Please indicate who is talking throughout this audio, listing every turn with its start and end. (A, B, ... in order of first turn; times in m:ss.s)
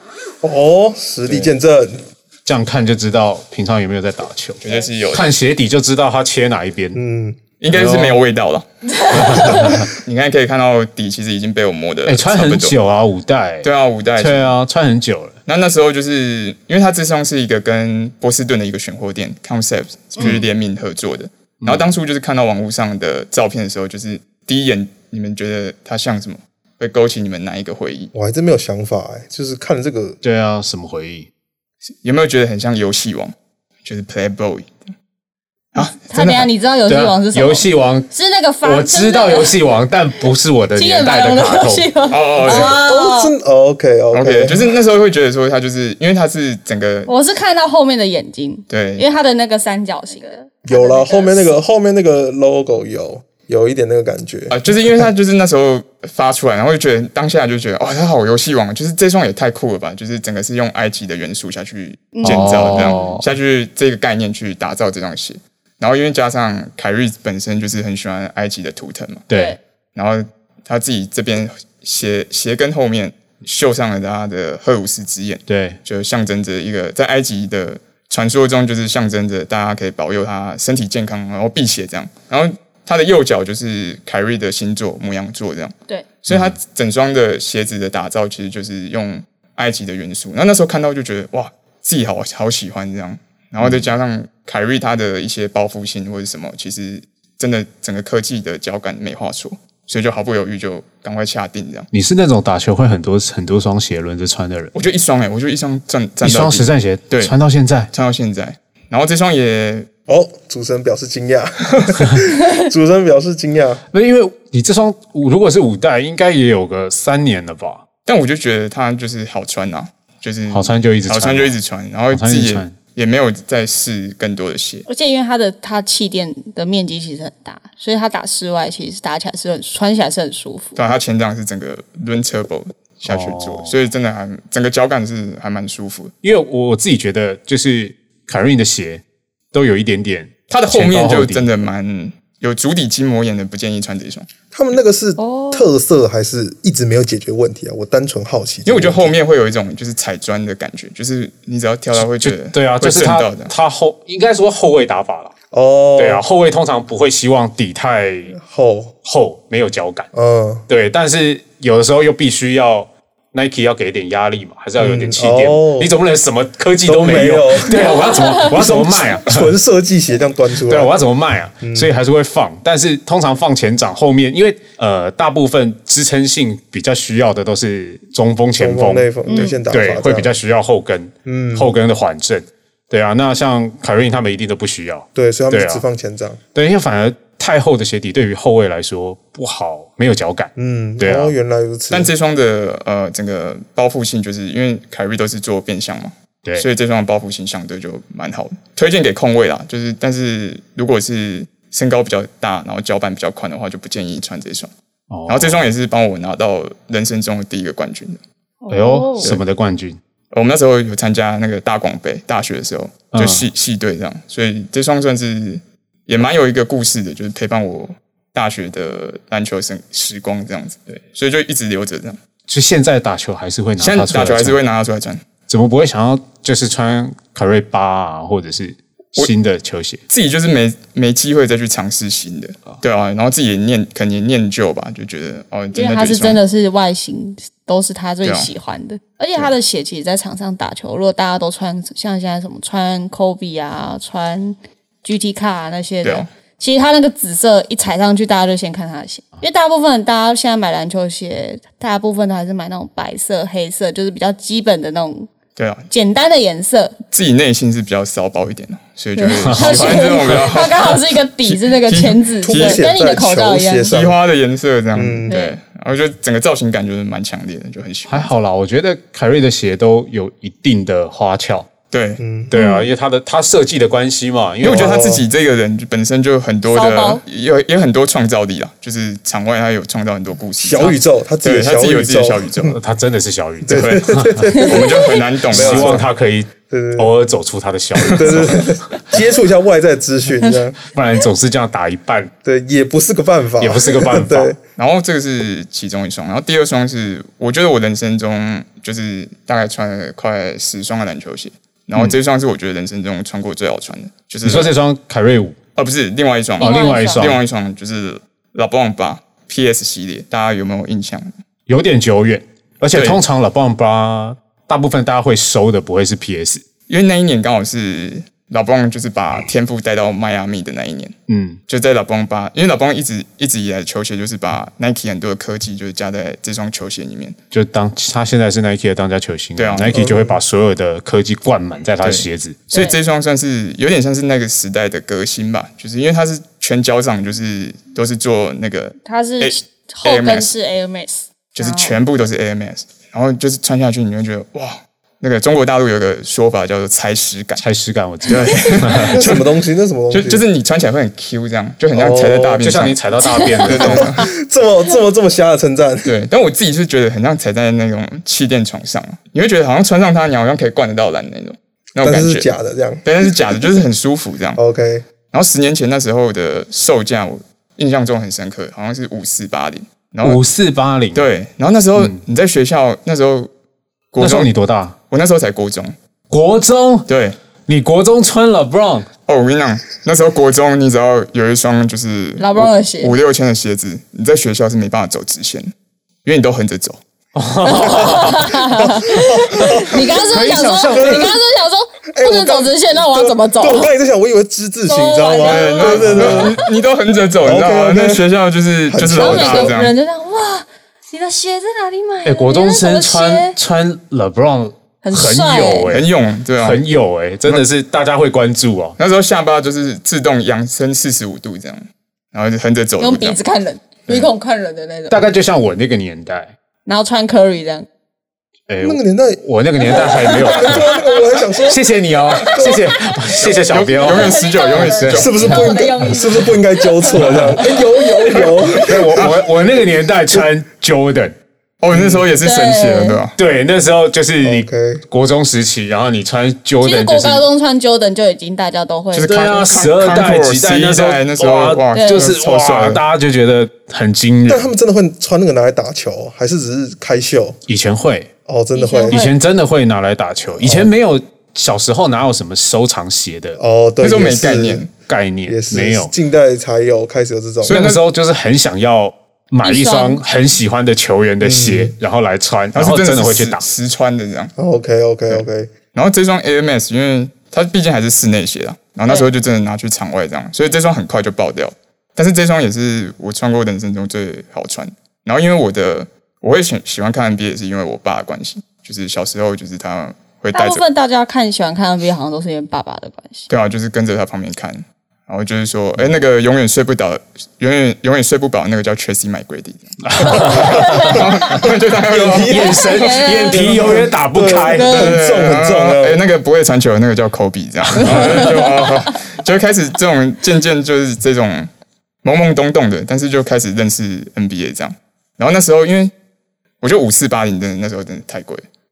0:00.4-0:02.0 A
0:02.4-0:04.6 B
0:04.6-0:05.3 C
0:05.1-0:07.0 B
0:06.9-0:07.4 A
0:07.6-0:12.8 C
0:07.7-0:08.2 B
0:09.0-0:09.7 D
0:09.1-0:09.9 B
0:12.0-0:15.4 B
0:13.6-0:14.5 C
0:15.5-0:28.1 C
0:21.6-0:21.9 B
0:28.1-0:30.2 A
0:30.2-0:31.3 B
0:32.0-0:34.8 C
0:35.7-0:36.5 C
0:35.8-0:39.6 D
0:36.9-0:38.1 B
0:38.6-0:41.9 B
0:40.8-0:43.3 D
0:42.1-0:42.8 C
0:42.4-0:44.7 A
0:44.1-0:47.1 C
0:47.1-0:51.6 D
0:48.7-0:49.0 C
0:50.6-0:54.6 A
0:54.5-1:09.2 C
1:02.1-1:03.2 D
1:02.2-1:03.2 B
1:09.3-1:09.6 B
1:09.3-1:09.6 D
1:09.9-1:25.7 C
1:15.5-1:15.8 B
1:26.2-1:41.9 C
1:26.3-1:26.5 B
1:41.9-1:44.7 B
1:44.7-1:47.3 C
1:46.2-1:47.9 B
1:47.9-1:49.9 C
1:50.1-1:53.8 A
1:53.9-1:57.8 B
1:58.0-2:04.8 C
2:00.5-2:01.5 B
2:02.1-2:02.7 B
2:04.9-2:10.8 D
2:10.8-2:16.1 C
2:13.1-2:13.7 B
2:16.2-2:21.5 B
2:20.5-2:24.3 C
2:24.5-2:29.1 A
2:25.2-2:25.7 D
2:28.6-2:33.5 C
2:31.9-2:35.3 B
2:35.5-2:36.2 A
2:36.0-2:38.4 B
2:38.3-2:38.9 A
2:39.0-2:40.1 B
2:40.1-2:40.6 A
2:40.7-2:49.5 B
2:44.8-2:45.9 A
2:46.8-2:50.9 A
2:50.6-2:59.1 B
2:51.6-2:51.9 A
2:58.6-3:00.3 A
2:59.3-2:59.5 D
2:59.7-3:05.8 B
3:01.2-3:01.7 A
3:05.1-3:06.4 A
3:06.5-3:11.3 B
3:10.6-3:12.1 A
3:11.9-3:24.7 C
3:25.1-3:25.6 B
3:25.3-3:28.2 C
3:28.6-3:29.3 D
3:28.7-3:30.0 B
3:30.3-3:42.2 C
3:33.1-3:33.5 B
3:42.5-3:44.6 B
3:43.8-3:45.2 C
3:45.5-3:50.0 B
3:50.1-3:56.4 C
3:55.7-4:15.3 D
3:58.2-3:58.5 C
4:15.6-4:15.9 C
4:15.9-4:16.9 D
4:17.1-4:22.8 C
4:19.2-4:23.9 D
4:19.4-4:20.4 B
4:22.4-4:24.2 A
4:23.9-4:28.3 C
4:24.9-4:25.3 A
4:25.3-4:25.6 D
4:28.1-4:31.7 B
4:31.9-4:32.2 C
4:32.2-4:32.5 A
4:32.5-4:35.0 B
4:32.5-4:32.9 D
4:34.6-4:42.8 C
4:34.6-4:35.2 A
4:36.7-4:37.2 D
4:40.6-4:42.8 A
4:42.7-4:44.4 B
4:43.6-4:46.1 A
4:43.7-4:46.0 C
4:44.5-4:44.8 D
4:45.5-4:48.8 B
4:46.7-4:47.1 A
4:48.0-4:50.8 A
4:50.9-4:52.3 B
4:52.4-4:54.6 A
4:53.6-4:54.5 B
4:54.8-5:04.7 C
5:04.4-5:05.6 B
5:05.8-5:11.3 C
5:06.6-5:07.3 D
5:06.6-5:07.4 B
5:11.7-5:16.6 B
5:12.9-5:13.2 C
5:16.9-5:21.1 C
5:21.3-5:21.6 B
5:21.7-5:27.4 C
5:27.5-5:32.6 B
5:29.6-5:30.0 C
5:29.9-5:30.4 A
5:32.0-5:40.5 C
5:39.0-5:42.0 D
5:41.5-5:47.6 C
5:47.6-5:49.2 B
5:48.2-5:49.5 C
5:49.1-5:50.4 A
5:50.1-5:53.0 C
5:51.9-5:52.6 A
5:52.6-5:54.1 B
5:53.2-5:54.2 D
5:53.6-5:54.3 C
5:53.8-5:56.1 A
5:56.0-6:02.5 C
6:02.0-6:03.0 A
6:03.0-6:04.6 C
6:04.6-6:05.0 A
6:05.3-6:10.4 C
6:10.2-6:11.2 B
6:11.1-6:13.5 C
6:14.1-6:14.5 C
6:14.2-6:14.9 B
6:15.1-6:15.9 C
6:16.3-6:17.1 B
6:17.1-6:17.4 C
6:17.7-6:19.1 B
6:19.3-6:25.7 C
6:22.4-6:23.1 D
6:26.2-6:27.0 C
6:27.3-6:31.3 B
6:27.6-6:33.9 D
6:29.1-6:30.3 A
6:30.9-6:31.4 A
6:32.1-6:36.6 A
6:34.9-6:36.6 D
6:35.4-6:39.9 C
6:37.4-6:38.2 A
6:38.9-6:39.8 A
6:39.1-6:43.6 D
6:42.2-6:49.0 B
6:45.0-6:46.0 D
6:45.9-6:46.8 C
6:49.0-6:53.4 C
6:53.0-6:55.2 D
6:55.1-6:56.5 B
6:56.8-6:57.9 D
6:58.7-7:00.9 B
6:58.8-7:01.8 A
6:59.8-7:01.1 D
7:01.6-7:05.2 B
7:02.4-7:02.7 D
7:02.4-7:02.9 A
7:03.4-7:05.6 C
7:04.0-7:08.4 D
7:05.1-7:09.3 A
7:07.2-7:11.3 B
7:09.1-7:09.5 C
7:11.8-7:13.4 C
7:11.9-7:12.2 A
7:12.4-7:13.2 D
7:13.4-7:17.4 B
7:14.4-7:15.0 A
7:16.8-7:19.5 D
7:19.1-7:23.0 C
7:19.2-7:24.7 B
7:21.9-7:22.3 D
7:24.4-7:27.6 A
7:27.7-7:28.3 B
7:28.4-7:29.2 A
7:28.7-7:29.3 D
7:29.1-7:33.6 B
7:30.6-7:30.9 A
7:33.6-7:34.8 A
7:34.0-7:34.9 C
7:35.0-7:36.1 B
7:35.5-7:37.8 A
7:37.6-7:38.0 C
7:37.7-7:43.6 B
7:39.6-7:40.2 D
7:41.4-7:41.9 A
7:42.7-7:44.5 C
7:44.6-7:45.7 A
7:45.3-8:00.8 C
8:00.5-8:03.5 D
8:03.5-8:12.8 C
8:10.0-8:11.1 B
8:10.2-8:11.4 D
8:10.5-8:16.2 A
8:12.4-8:15.1 B
8:12.7-8:15.2 D
8:15.0-8:21.7 C
8:18.0-8:19.1 D
8:18.0-8:18.4 B
8:22.2-8:26.1 C
8:26.8-8:28.6 C